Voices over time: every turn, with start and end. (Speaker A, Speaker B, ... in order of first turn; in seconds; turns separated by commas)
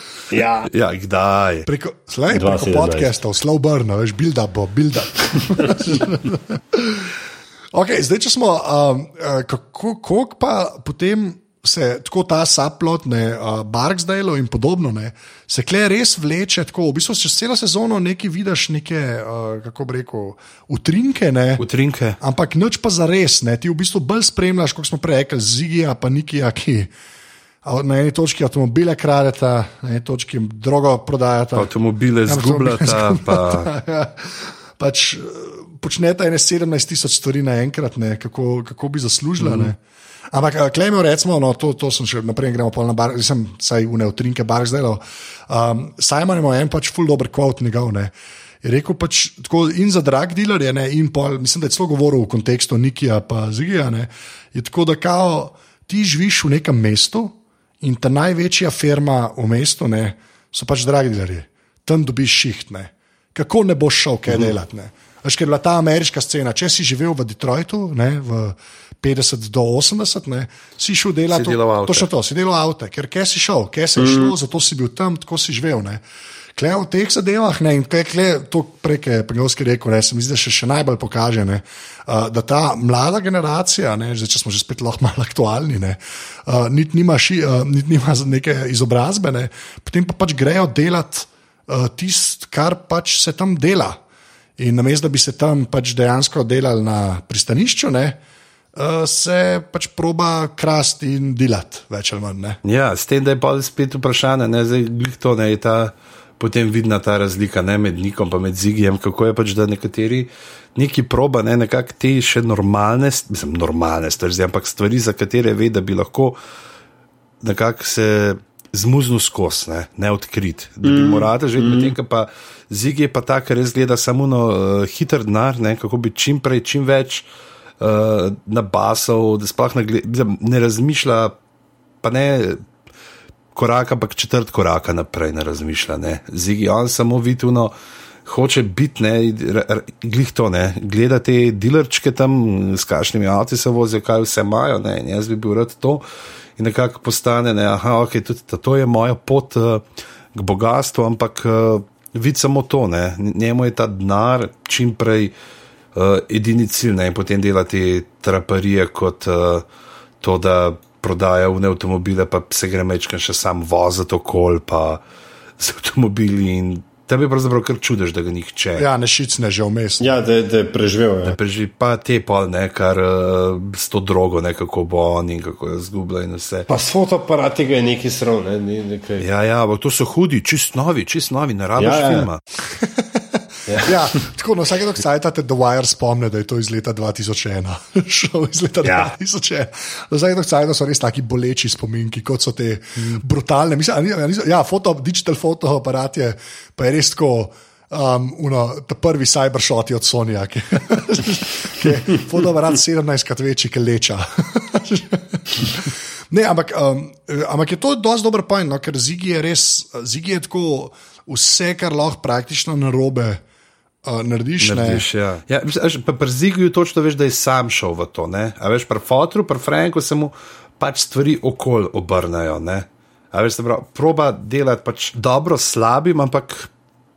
Speaker A: 0.3-0.7, Speaker B: 0.7-1.7, Speaker C: 1.6-7.2, Speaker A: 2.3-3.1, Speaker C: 7.7-21.6, Speaker B: 21.6-22.2, Speaker C: 22.2-26.9, Speaker C: 27.6-31.7, Speaker B: 31.5-33.7, Speaker C: 32.3-39.8, Speaker B: 39.4-39.7, Speaker C: 40.3-76.0, Speaker B: 71.3-72.1, Speaker A: 74.0-74.3, Speaker C: 76.5-94.0, Speaker C: 94.6-98.2, Speaker C: 98.7-102.6, Speaker B: 102.6-116.4, Speaker B: 117.4-127.2, Speaker A: 120.8-121.9, Speaker B: 127.8-131.3, Speaker B: 132.0-132.6, Speaker B: 133.5-137.7, Speaker B: 138.2-146.0, Speaker B: 146.6-149.8, Speaker B: 150.3-155.3, Speaker B: 155.9-159.6, Speaker B: 160.2-165.0, Speaker B: 165.6-168.9, Speaker C: 168.8-170.1, Speaker A: 170.0-171.3, Speaker B: 171.2-176.7, Speaker A: 176.7-179.2, Speaker B: 179.2-182.4, Speaker A: 181.8-182.3, Speaker C: 182.7-213.4, Speaker A: 183.7-184.1, Speaker A: 188.8-189.1, Speaker C: 214.0-215.0, Speaker B: 214.6-226.7